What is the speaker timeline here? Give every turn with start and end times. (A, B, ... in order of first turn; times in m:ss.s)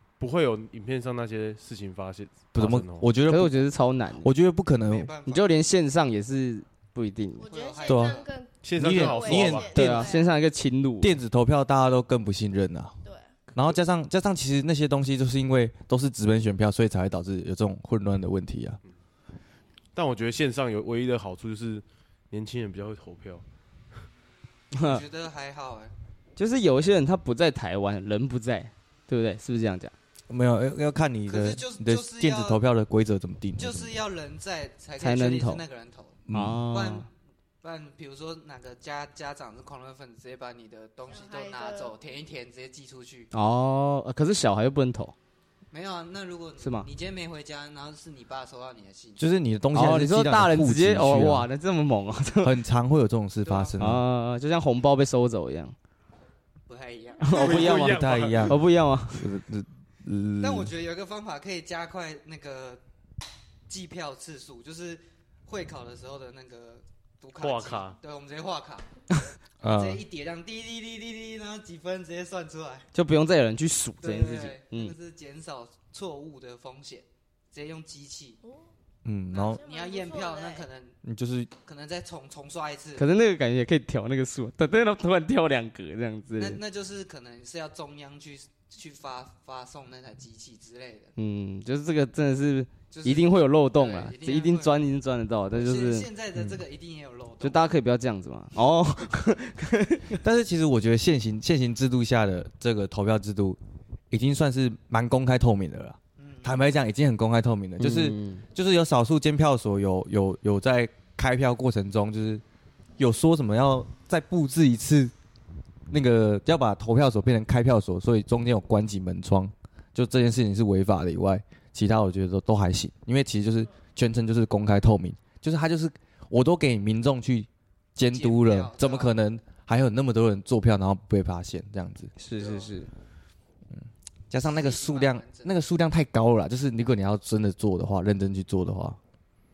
0:00.2-0:03.1 A
0:02.5-0:03.6 B
0:03.3-0:04.3 C
0:04.2-0:05.1 B
0:04.8-0:05.5 D
0:05.2-0:07.5 C
0:07.4-0:10.3 E
0:07.5-0:08.3 D
0:07.8-0:08.2 B
0:08.6-0:09.7 A
0:08.8-0:10.1 B
0:09.7-0:11.1 C
0:11.0-0:13.0 B
0:13.0-0:13.3 E
0:13.5-0:18.8 B
0:19.9-0:23.4 A
0:24.7-0:25.0 C
0:24.8-0:25.9 D
0:26.4-0:29.9 C
0:30.3-0:33.9 B
0:31.3-0:32.6 D
0:33.6-0:37.1 D
0:35.0-0:35.6 C
0:36.3-0:36.6 B
0:36.3-0:37.1 C
0:37.6-0:43.3 D
0:41.1-0:42.0 E
0:43.3-0:45.1 C
0:45.7-0:49.2 D
0:46.6-0:46.9 C
0:49.2-0:51.5 B
0:49.7-0:52.6 C
0:52.4-0:54.0 B
0:53.4-0:53.7 D
0:53.8-0:55.8 C
0:56.6-0:57.4 D
0:57.2-0:59.3 C
0:57.3-0:58.6 A
0:57.4-0:58.6 B
0:59.1-1:00.7 B
1:00.4-1:02.8 D
1:03.7-1:08.9 D
1:07.4-1:08.0 A
1:09.6-1:10.0 B
1:09.6-1:12.9 D
1:12.9-1:14.9 C
1:14.0-1:18.4 D
1:19.0-1:19.6 B
1:19.3-1:21.0 D
1:19.5-1:20.6 E
1:21.0-1:21.5 B
1:21.6-1:23.0 D
1:23.0-1:26.6 C
1:26.4-1:31.1 D
1:31.2-1:36.1 C
1:32.9-1:34.8 D
1:35.5-1:37.6 D
1:37.4-1:40.2 C
1:40.2-1:43.6 B
1:44.1-1:52.4 B
1:46.2-1:46.6 D
1:47.8-1:48.4 C
1:53.0-1:55.1 B
1:55.9-2:12.1 B
2:08.1-2:09.1 D
2:12.2-2:12.9 C
2:12.3-2:12.7 D
2:13.7-2:19.0 B
2:14.4-2:15.5 D